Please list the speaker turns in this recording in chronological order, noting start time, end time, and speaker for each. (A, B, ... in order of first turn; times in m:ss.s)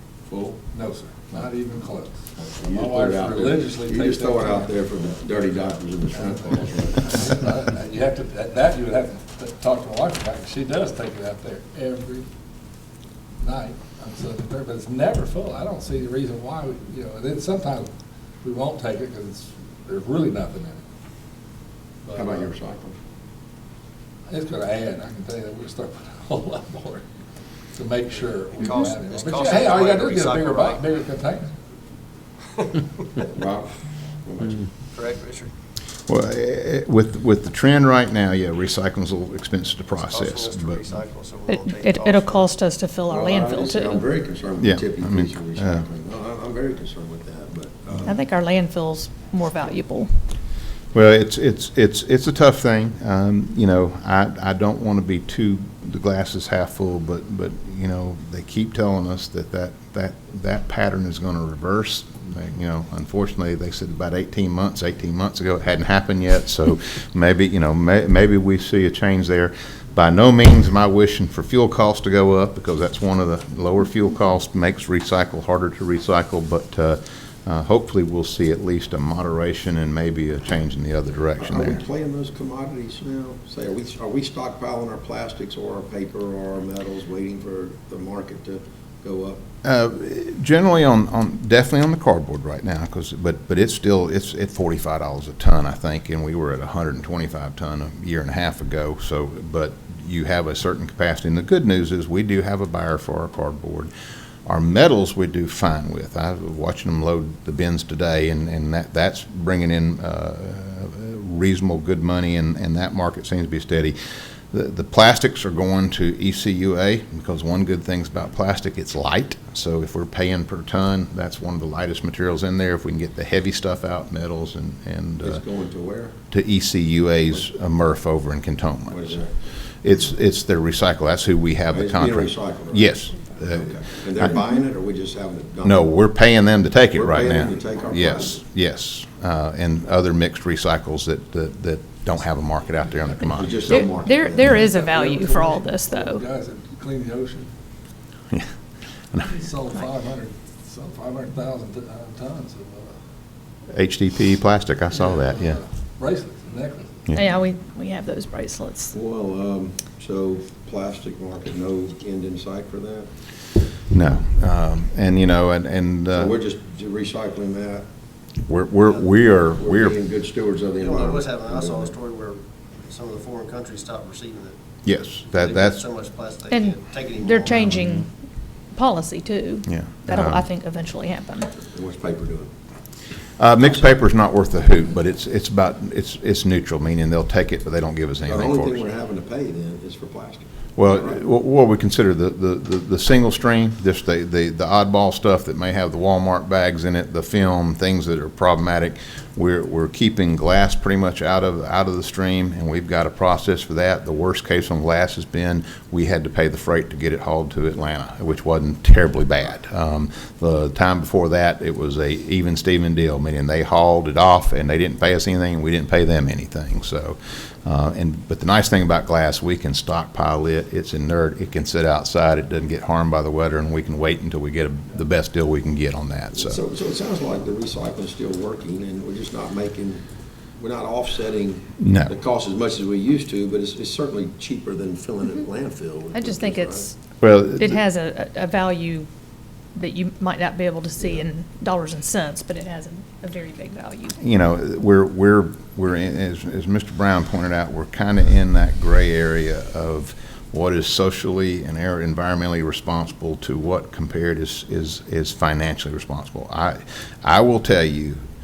0:00.3-0:00.6 A
0:00.7-0:04.7 B
0:02.4-0:07.3 A
0:06.1-0:12.3 B
0:13.4-0:17.9 B
0:18.4-0:20.8 B
0:22.0-0:22.5 B
0:22.1-0:23.0 A
0:24.3-0:27.1 B
0:27.7-0:31.5 B
0:28.6-0:30.8 C
0:33.3-0:34.7 A
0:34.9-0:35.5 C
0:36.1-0:40.8 D
0:40.0-0:42.5 C
0:41.5-0:44.0 E
0:43.1-0:48.1 A
0:44.6-0:45.8 D
0:48.0-0:50.1 E
0:50.9-1:21.8 D
1:21.4-1:29.4 A
1:29.6-1:43.9 D
1:44.5-1:54.0 D
1:54.5-2:05.4 D
2:05.2-2:06.2 A
2:06.3-2:09.2 D
2:08.9-2:09.3 A
2:09.8-2:13.8 D
2:11.7-2:15.8 A
2:15.6-2:23.9 D
2:17.0-2:18.4 A
2:23.3-2:24.7 A
2:23.7-2:26.2 E
2:24.5-2:27.5 B
2:29.1-2:29.4 D
2:29.3-2:33.0 B
2:33.7-2:35.6 D
2:34.9-2:37.1 B
2:37.1-2:38.9 E
2:38.9-2:43.1 A
2:43.9-2:46.4 D
2:46.1-2:47.9 A
2:48.5-2:50.0 D
2:49.6-2:52.0 A
2:50.8-2:54.6 C
2:54.8-2:55.8 D
2:55.3-2:57.7 C
2:56.5-2:58.1 E
2:58.7-3:01.5 E
2:59.7-3:00.4 D
3:01.7-3:02.5 A
3:03.4-3:08.8 D
3:08.3-3:11.2 A
3:10.8-3:46.6 D
3:46.3-3:50.0 A
3:50.6-3:56.9 A
3:51.8-3:52.2 D
3:56.1-3:59.1 E
3:57.2-3:57.8 D
3:59.8-4:04.2 E
4:04.2-4:18.2 D